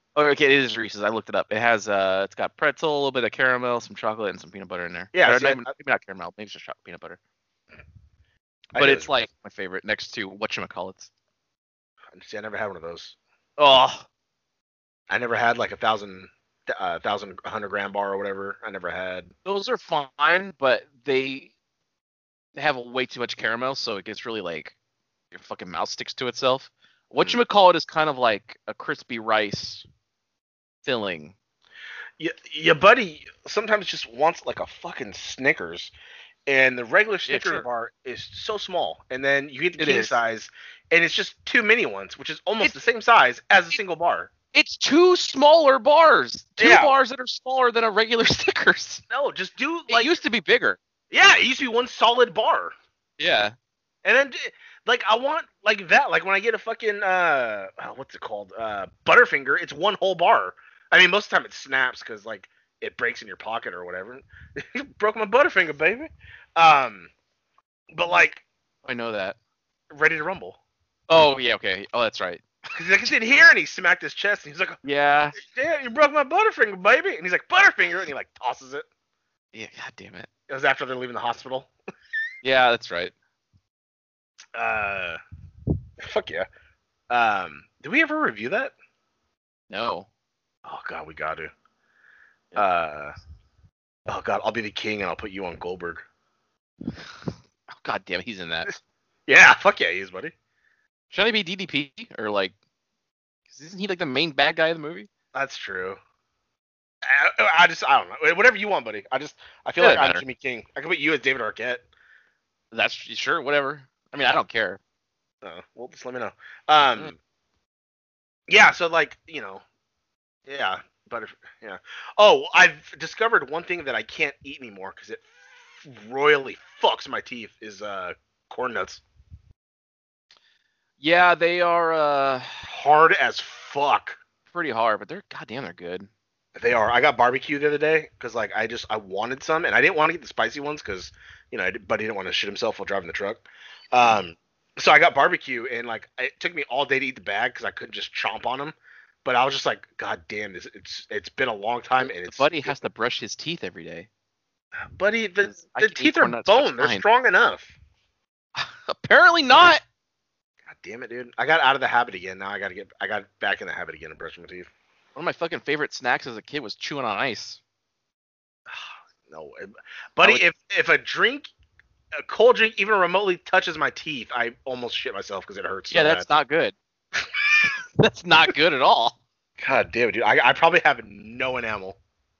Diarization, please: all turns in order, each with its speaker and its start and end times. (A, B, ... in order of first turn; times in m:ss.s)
0:00.1-0:07.2 A
0:05.1-0:05.7 B
0:08.7-0:09.1 B
0:08.8-0:11.1 A
0:12.1-0:13.2 B
0:13.6-0:14.0 A
0:15.1-0:19.3 B
0:19.4-0:21.5 A
0:22.5-0:24.7 A
0:25.3-0:29.8 A
0:30.8-0:31.3 A
0:32.2-0:35.9 B
0:36.5-0:44.3 B
0:37.3-0:37.6 A
0:39.8-0:40.2 A
0:44.5-0:49.0 A
0:46.6-0:46.9 B
0:49.1-0:50.1 B
0:49.9-0:50.8 A
0:51.1-0:52.7 B
0:53.2-0:53.5 A
0:54.0-1:07.1 B
1:07.9-1:08.4 B
1:08.8-1:09.4 A
1:09.9-1:10.6 B
1:11.1-1:12.4 A
1:12.7-1:14.8 B
1:14.8-1:15.4 A
1:15.3-1:18.8 B
1:19.5-1:20.3 A
1:20.5-1:21.7 B
1:22.4-1:23.1 A
1:24.5-1:25.2 B
1:26.0-1:26.5 B
1:27.1-1:28.7 B
1:29.7-1:30.1 A
1:30.6-1:31.5 B
1:32.6-1:33.1 B
1:34.1-1:36.0 B
1:37.8-1:38.7 A
1:39.3-1:40.3 B
1:41.1-1:42.5 A
1:43.5-1:45.1 A
1:45.3-1:46.0 B
1:47.0-1:51.8 B
1:49.8-1:50.2 A
1:52.7-1:54.8 A
1:55.4-1:57.2 B
1:58.5-1:59.6 B
2:00.5-2:09.0 B
2:11.0-2:12.6 A
2:12.7-2:14.2 B
2:14.5-2:16.1 A
2:16.6-2:32.8 B
2:32.2-2:34.1 A
2:34.9-2:37.7 B
2:35.4-2:37.0 A
2:38.6-2:39.8 A
2:40.6-2:44.7 B
2:45.1-2:47.6 A
2:48.7-2:51.5 B
2:52.2-2:56.3 B
2:55.9-2:56.8 A
2:58.0-2:59.2 A
2:59.6-3:02.0 B